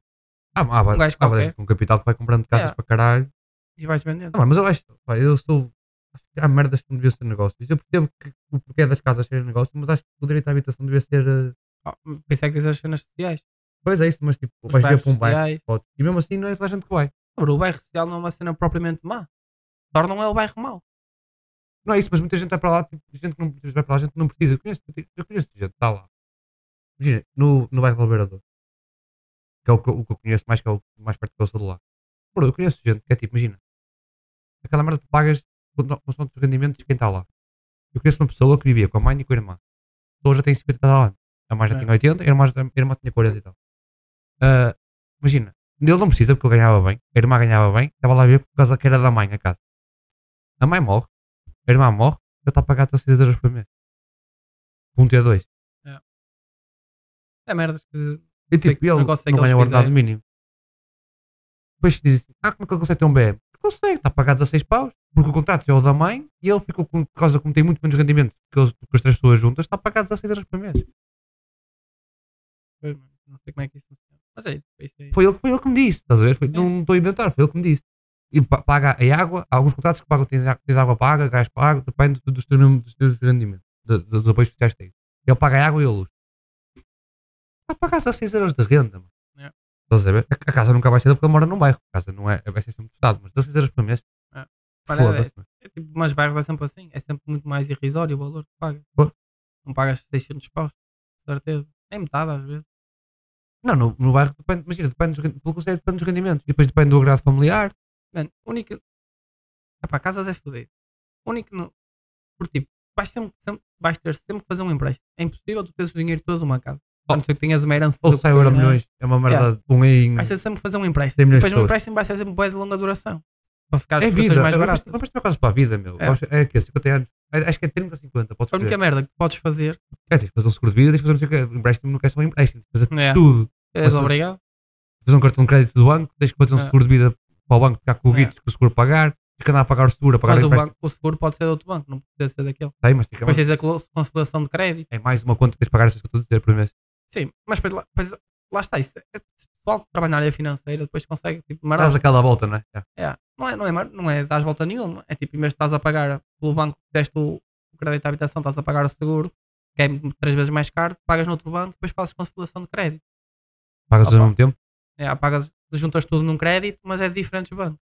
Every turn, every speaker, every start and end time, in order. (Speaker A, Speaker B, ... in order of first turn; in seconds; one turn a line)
Speaker A: 0.5-3.3
Speaker B: 0.9-1.5
Speaker B: 2.5-2.8
Speaker B: 3.8-4.4
Speaker A: 4.3-5.7
Speaker A: 6.3-11.5
Speaker B: 11.8-13.4
Speaker A: 13.8-17.1
Speaker B: 14.7-15.6
Speaker B: 17.4-19.3
Speaker B: 19.9-20.8
Speaker A: 21.8-26.1
Speaker A: 27.0-28.4
Speaker A: 29.6-31.8
Speaker A: 32.3-33.6
Speaker A: 34.6-37.2
Speaker A: 37.9-39.6
Speaker A: 40.2-43.5
Speaker A: 44.4-49.6
Speaker A: 50.6-51.1
Speaker A: 51.6-53.6
Speaker A: 55.0-55.5
Speaker B: 57.5-59.9
Speaker A: 58.5-60.2
Speaker A: 61.8-70.8
Speaker B: 72.8-75.2
Speaker A: 75.1-86.1
Speaker A: 87.7-89.1
Speaker A: 89.9-94.0
Speaker B: 94.3-98.8
Speaker A: 94.9-95.4
Speaker B: 99.6-102.6
Speaker A: 103.6-107.7
Speaker B: 108.1-108.8
Speaker B: 109.8-110.7
Speaker B: 111.2-111.7
Speaker B: 112.4-119.5
Speaker A: 118.0-120.3
Speaker B: 120.2-125.0
Speaker A: 121.2-121.7
Speaker A: 124.0-128.8
Speaker B: 128.5-129.8
Speaker A: 130.1-134.1
Speaker B: 132.9-134.4
Speaker A: 135.0-140.7
Speaker B: 140.2-142.7
Speaker A: 142.8-143.4
Speaker B: 143.2-144.9
Speaker A: 144.9-146.7
Speaker B: 147.1-152.0
Speaker A: 151.8-152.8
Speaker B: 153.0-163.0
Speaker A: 163.9-164.5
Speaker B: 164.0-164.3
Speaker B: 165.0-167.8